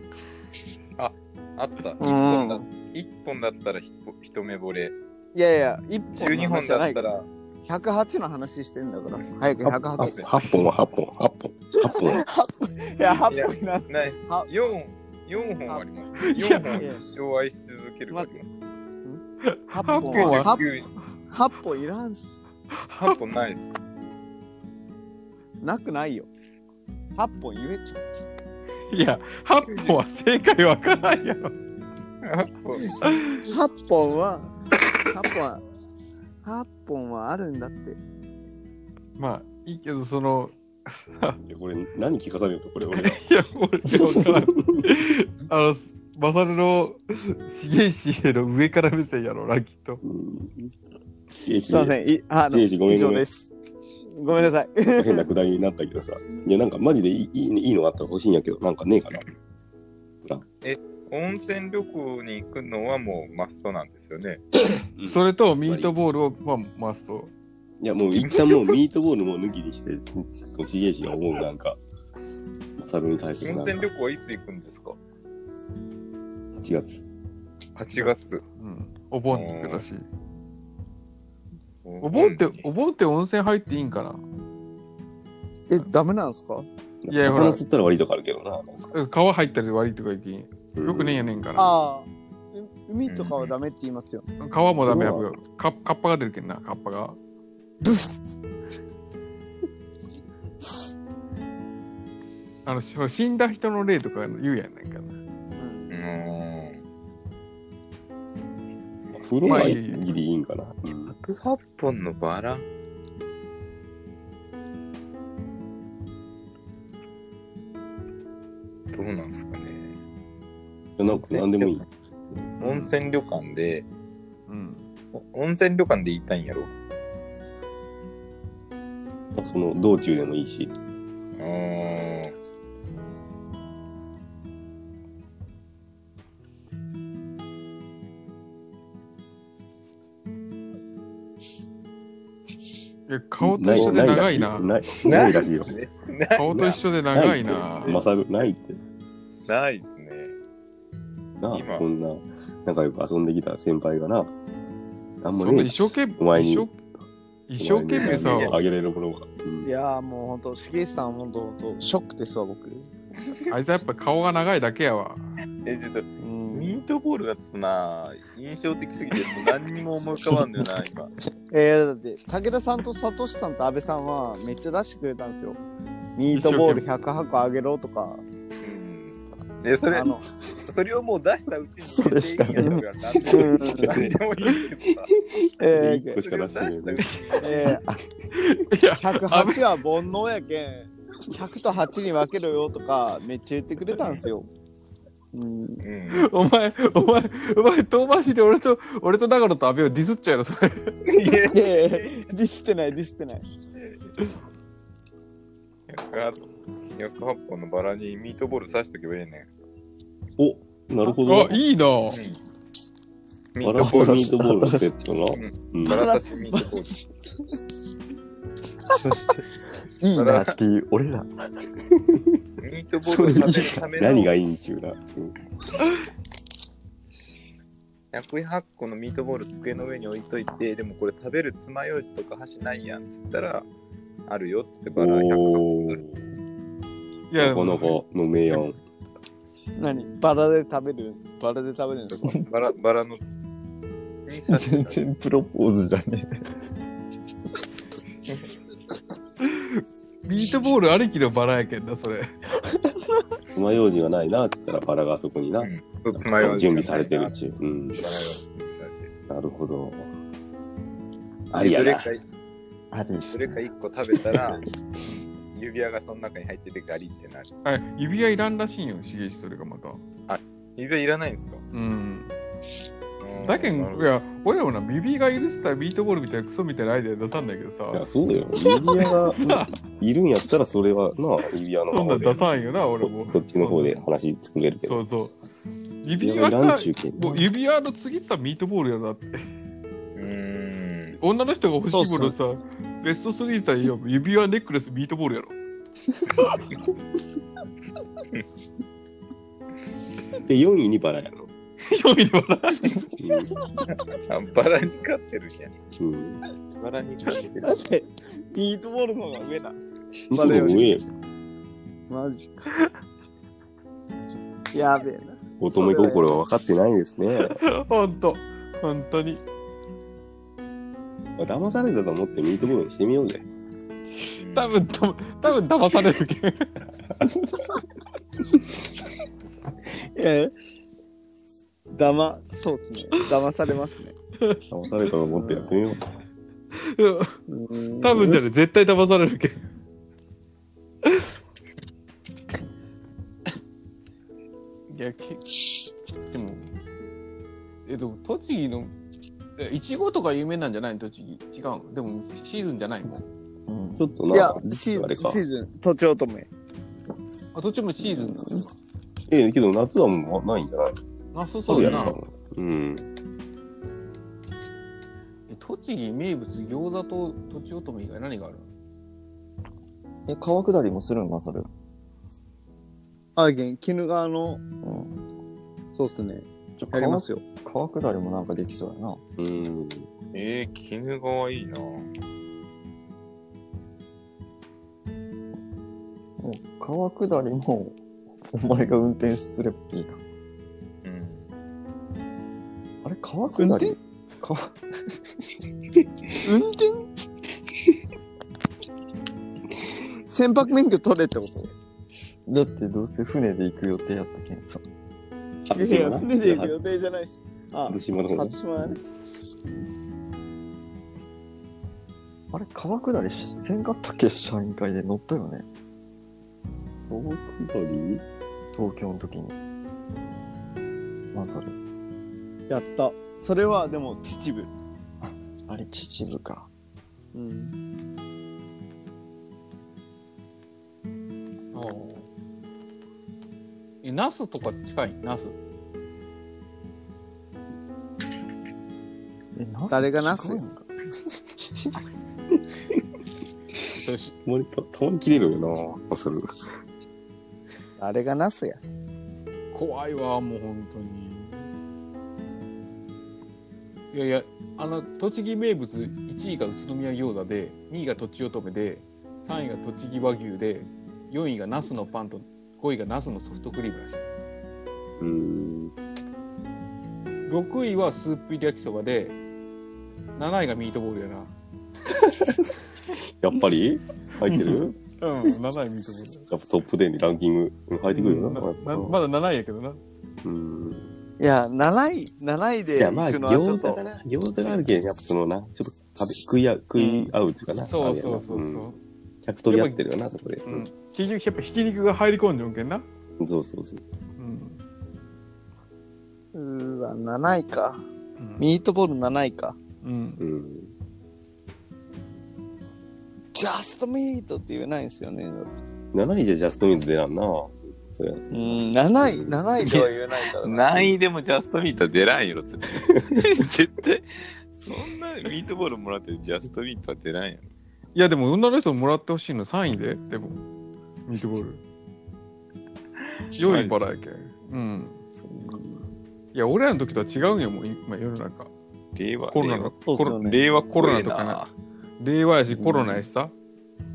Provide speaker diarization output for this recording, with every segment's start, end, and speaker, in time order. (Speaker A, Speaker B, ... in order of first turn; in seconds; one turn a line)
Speaker A: 1.0-4.9
Speaker B: 2.0-2.6
Speaker B: 5.3-7.1
Speaker A: 6.2-7.3
Speaker B: 7.7-10.3
Speaker C: 9.6-12.2
Speaker A: 10.0-10.3
Speaker B: 11.8-14.5
Speaker A: 13.0-18.5
Speaker D: 16.2-16.9
Speaker B: 16.8-17.0
Speaker B: 19.1-20.6
Speaker D: 19.4-20.6
Speaker A: 20.1-20.9
Speaker B: 21.3-22.4
Speaker D: 22.7-23.2
Speaker A: 23.0-23.7
Speaker B: 25.6-26.3
Speaker B: 27.2-28.0
Speaker D: 28.9-31.6
Speaker A: 29.7-30.0
Speaker A: 32.2-33.0
Speaker D: 33.0-33.4
Speaker B: 33.5-34.6
Speaker B: 35.1-35.6
Speaker B: 36.4-38.0
Speaker D: 39.2-41.4
Speaker C: 41.4-43.2
Speaker D: 42.9-50.0
Speaker C: 44.1-44.9
Speaker C: 50.0-50.7
Speaker C: 51.4-52.0
Speaker B: 51.6-53.5
Speaker C: 52.5-53.3
Speaker B: 54.2-55.3
Speaker C: 55.0-59.2
Speaker A: 60.6-64.4
Speaker C: 65.0-65.9
Speaker D: 65.1-67.3
Speaker C: 67.8-71.8
Speaker A: 68.2-68.6
Speaker C: 72.8-73.9
Speaker A: 73.4-75.0
Speaker C: 76.6-77.0
Speaker A: 77.8-78.4
Speaker D: 78.0-80.0
Speaker A: 79.3-79.8
Speaker A: 81.8-82.6
Speaker D: 82.0-84.2
Speaker B: 85.7-86.7
Speaker C: 87.0-88.9
Speaker D: 87.1-87.6
Speaker D: 88.9-91.7
Speaker C: 90.8-91.2
Speaker B: 91.6-94.3
Speaker A: 93.1-93.5
Speaker D: 94.4-97.2
Speaker C: 94.9-95.3
Speaker B: 97.8-98.2
Speaker D: 102.7-105.2
Speaker B: 105.6-106.0
Speaker A: 105.9-106.8
Speaker C: 109.1-111.2
Speaker D: 109.5-110.2
Speaker A: 111.1-112.7
Speaker A: 118.9-119.9
Speaker C: 121.0-121.8
Speaker A: 121.2-121.8
Speaker A: 122.6-123.9
Speaker D: 122.6-122.9
Speaker D: 124.5-124.9
Speaker A: 125.1-126.7
Speaker C: 129.3-130.7
Speaker A: 131.4-132.3
Speaker D: 143.1-144.7
Speaker C: 143.4-145.7
Speaker A: 145.1-146.8
Speaker D: 146.3-148.0
Speaker C: 146.5-148.8
Speaker A: 147.8-148.5
Speaker A: 149.5-150.3
Speaker C: 151.4-154.3
Speaker A: 151.5-151.9
Speaker C: 155.2-156.7
Speaker D: 155.4-156.8
Speaker D: 157.5-158.6
Speaker C: 157.6-159.7
Speaker A: 157.9-158.6
Speaker B: 159.6-162.9
Speaker D: 163.5-165.3
Speaker A: 165.6-171.1
Speaker B: 166.2-166.8
Speaker B: 171.5-175.6
Speaker B: 176.2-178.2
Speaker D: 176.3-176.8
Speaker A: 178.6-185.1
Speaker B: 179.9-180.2
Speaker E: 181.8-183.5
Speaker B: 182.6-184.0
Speaker C: 185.5-187.0
Speaker B: 185.6-186.2
Speaker A: 186.1-187.7
Speaker D: 187.0-187.4
Speaker B: 187.4-187.8
Speaker D: 188.3-189.7
Speaker B: 189.0-194.5
Speaker A: 194.0-194.3
Speaker B: 195.3-195.8
Speaker A: 195.8-196.3
Speaker D: 196.1-201.0
Speaker A: 201.1-202.2
Speaker B: 201.5-203.4
Speaker A: 205.9-206.4
Speaker A: 207.0-209.5
Speaker C: 210.4-211.6
Speaker D: 211.2-212.2
Speaker A: 212.1-212.4
Speaker A: 213.6-214.3
Speaker C: 213.6-216.2
Speaker E: 213.8-214.9
Speaker A: 215.3-216.9
Speaker B: 215.8-216.7
Speaker E: 218.9-219.4
Speaker E: 220.0-221.3
Speaker A: 220.1-220.6
Speaker A: 222.6-224.3
Speaker E: 223.0-223.9
Speaker C: 223.9-225.3
Speaker A: 228.1-233.7
Speaker A: 234.3-236.0
Speaker C: 235.0-236.2
Speaker D: 237.3-238.7
Speaker C: 237.4-238.8
Speaker B: 239.8-242.4
Speaker A: 242.1-243.2
Speaker A: 244.3-245.0
Speaker E: 244.5-246.3
Speaker D: 249.4-252.3
Speaker C: 253.5-258.0
Speaker A: 255.6-257.3
Speaker A: 258.0-259.1
Speaker C: 259.3-260.1
Speaker C: 261.5-262.1
Speaker A: 261.6-262.2
Speaker E: 262.9-263.6
Speaker A: 263.3-264.6
Speaker A: 265.5-267.5
Speaker D: 267.6-270.0
Speaker A: 270.3-271.6
Speaker D: 271.7-272.3
Speaker A: 273.2-274.1
Speaker D: 273.4-278.1
Speaker C: 277.9-282.5
Speaker D: 279.0-279.7
Speaker D: 281.9-284.0
Speaker C: 283.0-285.0
Speaker D: 284.9-285.4
Speaker D: 286.0-289.4
Speaker C: 286.2-287.5
Speaker A: 290.2-291.2
Speaker D: 291.2-295.6
Speaker B: 291.9-292.4
Speaker C: 300.4-301.5
Speaker D: 301.9-303.1
Speaker C: 303.2-303.5
Speaker A: 303.9-305.8
Speaker C: 306.0-306.4
Speaker A: 306.8-307.8
Speaker B: 307.6-309.8
Speaker C: 310.3-311.0
Speaker B: 310.3-311.0
Speaker B: 312.1-312.7
Speaker B: 314.7-316.3
Speaker C: 315.6-317.6
Speaker D: 317.5-319.4
Speaker C: 321.4-323.4
Speaker D: 324.3-326.7
Speaker A: 324.4-324.7
Speaker B: 329.9-330.5
Speaker B: 331.9-334.1
Speaker C: 334.7-336.1
Speaker B: 335.4-335.7
Speaker D: 336.7-337.4
Speaker B: 337.5-338.5
Speaker D: 338.0-339.7
Speaker D: 341.1-341.3
Speaker D: 344.9-346.7
Speaker D: 347.9-348.9
Speaker D: 349.6-353.2
Speaker E: 353.7-354.1
Speaker C: 354.0-355.4
Speaker B: 354.3-356.5
Speaker D: 357.6-358.7
Speaker B: 358.1-358.6
Speaker C: 359.3-360.9
Speaker D: 361.3-362.2
Speaker C: 361.7-363.1
Speaker D: 365.5-368.7
Speaker E: 370.3-371.7
Speaker B: 373.4-374.6
Speaker E: 374.8-375.1
Speaker B: 375.9-377.4
Speaker E: 376.8-379.2
Speaker C: 379.4-380.1
Speaker A: 380.3-382.1
Speaker E: 386.4-388.0
Speaker E: 388.5-390.2
Speaker A: 391.0-391.5
Speaker E: 393.0-394.8
Speaker B: 393.6-393.9
Speaker B: 396.4-397.1
Speaker B: 400.3-401.7
Speaker E: 402.5-404.8
Speaker C: 405.7-406.7
Speaker B: 405.8-409.0
Speaker C: 407.9-408.6
Speaker E: 412.5-415.6
Speaker C: 417.1-418.2
Speaker E: 418.7-419.5
Speaker E: 421.3-421.8
Speaker B: 422.7-424.7
Speaker E: 425.2-426.7
Speaker B: 427.3-427.8
Speaker D: 431.7-432.3
Speaker D: 434.0-435.6
Speaker E: 439.6-440.9
Speaker B: 439.9-440.6
Speaker D: 443.9-444.4
Speaker C: 444.4-446.5
Speaker B: 448.0-448.8
Speaker D: 449.7-451.7
Speaker D: 454.1-464.2
Speaker C: 465.2-465.9
Speaker D: 467.5-469.4
Speaker D: 470.4-471.5
Speaker C: 472.3-472.6
Speaker C: 473.4-475.0
Speaker D: 475.2-476.5
Speaker C: 476.5-479.2
Speaker D: 478.1-480.0
Speaker C: 480.4-481.1
Speaker B: 481.4-484.0
Speaker C: 483.0-488.9
Speaker B: 487.0-487.3
Speaker D: 487.7-489.0
Speaker C: 489.4-490.9
Speaker D: 489.7-490.0
Speaker D: 490.7-493.1
Speaker C: 493.4-494.1
Speaker D: 494.4-494.8
Speaker B: 496.5-498.0
Speaker D: 498.4-498.7
Speaker B: 498.6-499.8
Speaker D: 500.0-500.4
Speaker C: 500.4-500.9
Speaker B: 503.5-505.7
Speaker C: 506.1-509.6
Speaker B: 508.5-511.1
Speaker A: 509.8-510.1
Speaker A: 510.6-517.6
Speaker D: 518.1-520.6
Speaker D: 521.3-521.8
Speaker A: 523.6-524.0
Speaker D: 523.6-525.2
Speaker B: 525.4-526.0
Speaker D: 526.5-528.7
Speaker A: 529.2-531.7
Speaker D: 529.5-530.4
Speaker B: 530.1-530.6
Speaker D: 530.9-531.6
Speaker D: 532.2-533.5
Speaker B: 532.7-533.2